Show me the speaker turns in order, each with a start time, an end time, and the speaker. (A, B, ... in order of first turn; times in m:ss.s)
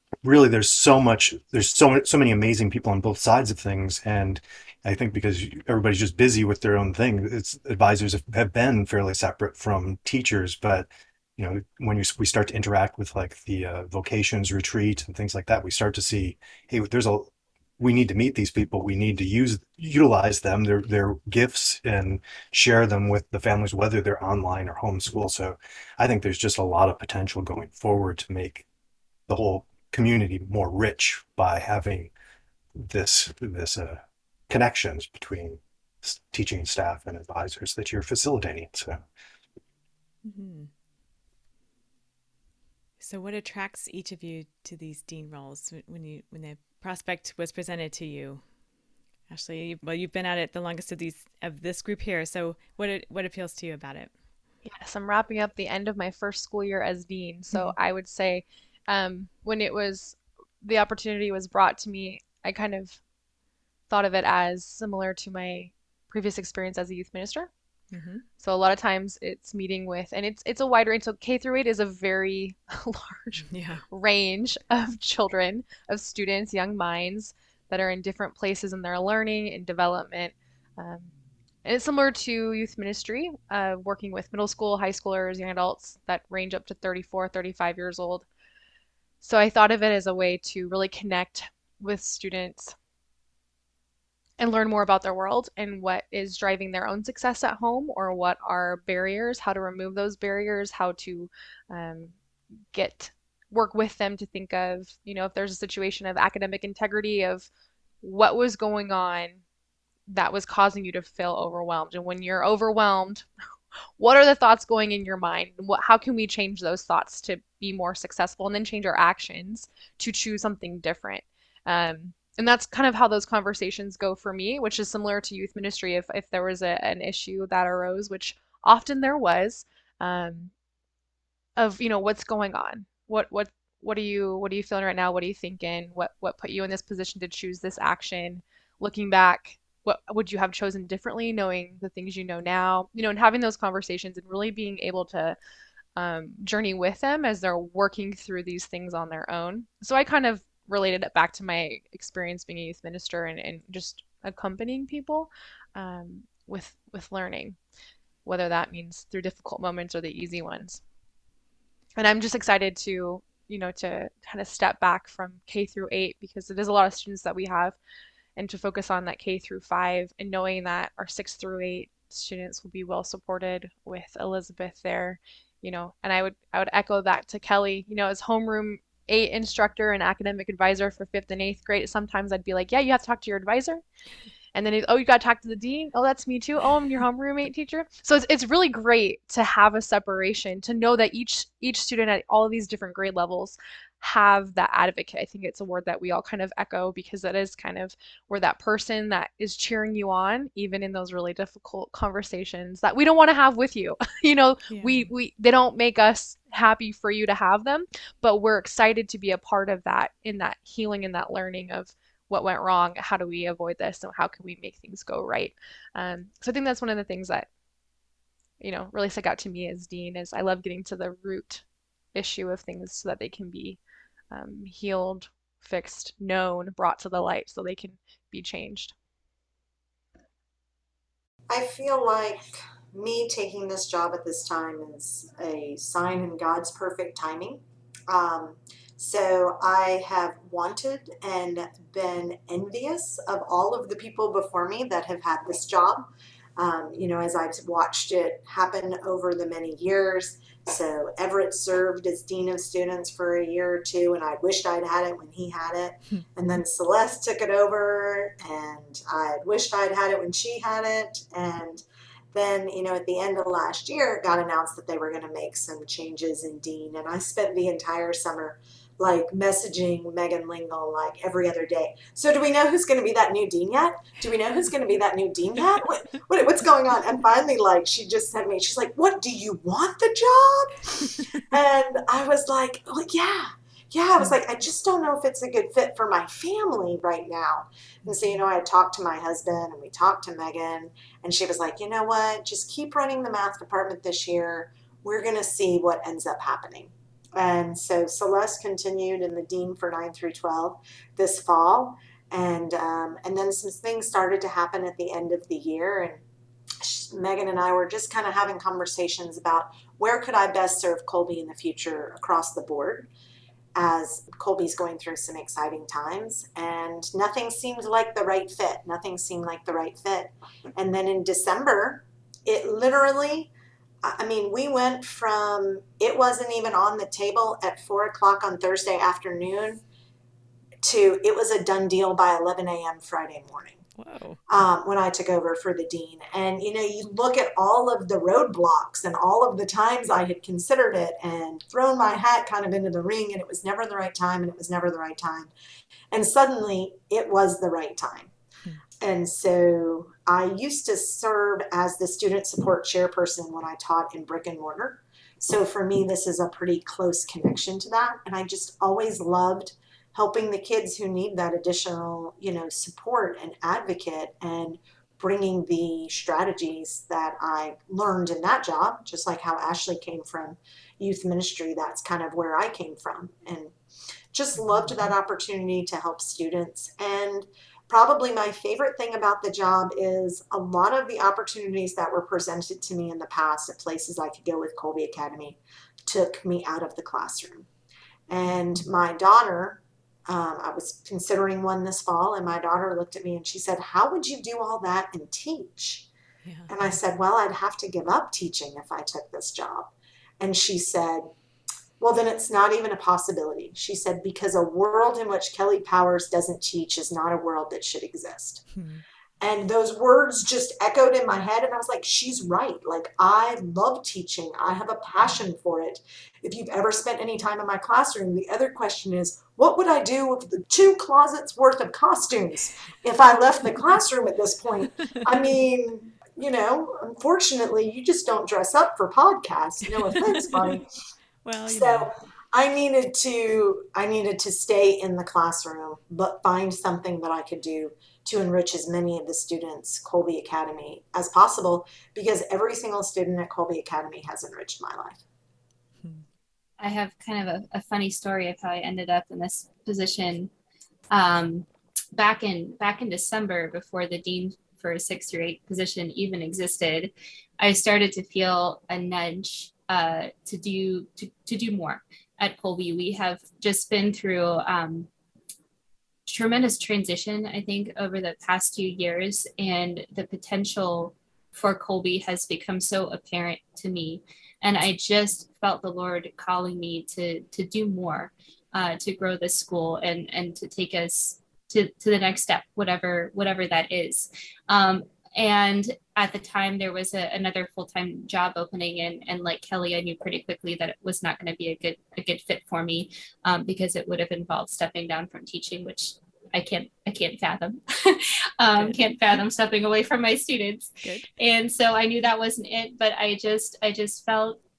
0:00.2-0:28.6 A
0:29.3-0:32.1 A
0:32.8-0:39.0 A
0:40.2-0:40.7 B
0:43.0-0:48.4 B
0:49.3-0:54.1 B
0:54.6-1:03.0 C
1:03.9-1:07.5 C
1:07.9-1:08.2 B
1:08.4-1:21.1 C
1:13.4-1:13.8 B
1:21.6-1:28.2 C
1:29.2-1:32.8 C
1:34.4-1:42.2 C
1:42.7-1:47.5 C
1:48.0-1:49.4 C
1:50.1-1:53.3 C
1:54.0-2:10.5 C
2:11.6-2:25.4 C
2:26.0-2:37.6 C
2:38.2-2:40.8 C
2:42.0-2:47.8 C
2:48.4-3:03.8 C
3:04.6-3:37.5 C
3:24.7-3:25.1 B
3:38.6-3:41.6 C
3:42.2-3:43.8 C
3:44.3-3:48.9 C
3:51.5-5:06.2 D
4:48.0-4:48.4 B
5:06.8-5:13.1 D
5:13.8-5:23.5 D
5:24.0-5:29.8 D
5:30.8-5:33.8 D
5:34.0-5:34.4 B
5:34.5-5:45.5 D
5:46.1-5:48.3 D
5:49.0-6:13.7 D
6:14.3-6:27.7 D
6:14.6-6:15.1 B
6:28.3-6:36.1 D
6:36.4-6:36.8 B
6:36.7-6:41.3 D
6:42.0-6:48.7 D
6:48.7-6:49.0 B
6:49.4-7:10.9 D
7:10.2-7:10.8 B
7:11.4-7:12.1 B
7:11.7-7:25.2 D
7:26.0-7:26.3 B
7:26.8-7:30.5 E
7:31.1-7:45.1 E
7:46.3-8:24.6 E
8:21.0-8:21.3 B